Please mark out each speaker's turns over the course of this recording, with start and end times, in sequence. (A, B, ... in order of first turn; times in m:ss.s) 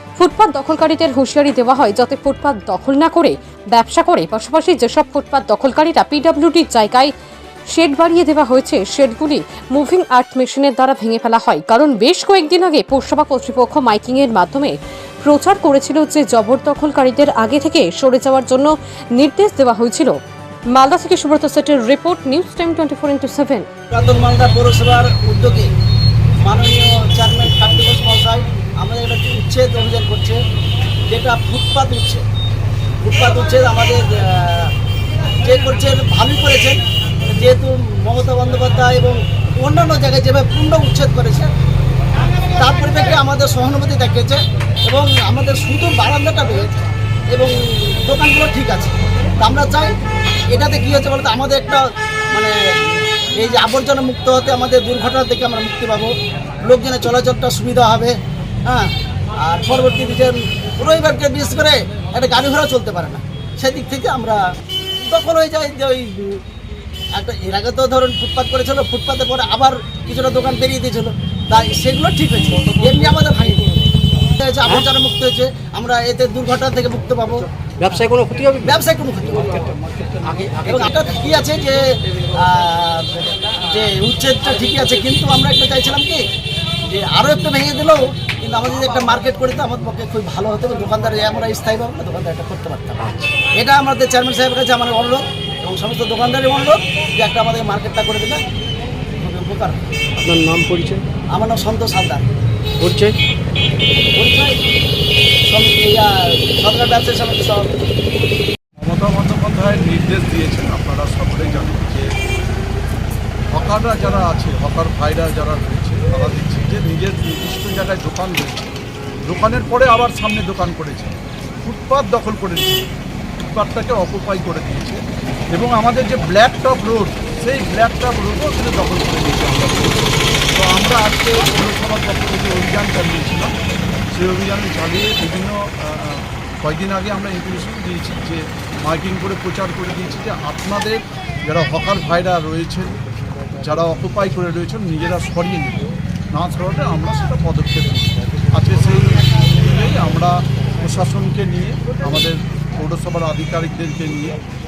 0:00.2-0:07.1 A
0:07.7-0:20.2 A
0:20.7-0:23.7 A
0:23.9-0:25.7 B
0:26.4-0:30.4 B
0:31.1-0:32.2 B
0:33.0-0:34.7 B
0:35.4-0:41.5 B
0:42.6-0:46.7 B
0:47.3-0:49.9 B
0:50.5-0:51.8 B
0:52.3-0:56.1 B
0:56.6-0:58.2 B
0:58.7-1:04.4 B
1:05.0-1:06.4 B
1:07.1-1:13.8 B
1:14.4-1:17.5 B
1:17.8-1:18.8 C
1:18.6-1:19.7 B
1:20.2-1:21.0 C
1:20.6-1:21.8 B
1:22.3-1:26.2 B
1:26.9-1:38.4 B
1:39.2-1:39.8 B
1:40.2-1:41.0 C
1:41.3-1:42.2 B
1:42.8-1:43.2 C
1:44.2-1:44.5 B
1:45.5-1:47.7 B
1:48.8-1:52.1 D
1:53.5-1:58.7 D
1:59.3-2:02.8 D
2:03.4-2:05.0 D
2:05.5-2:13.5 D
2:14.1-2:23.0 D
2:23.6-2:34.4 D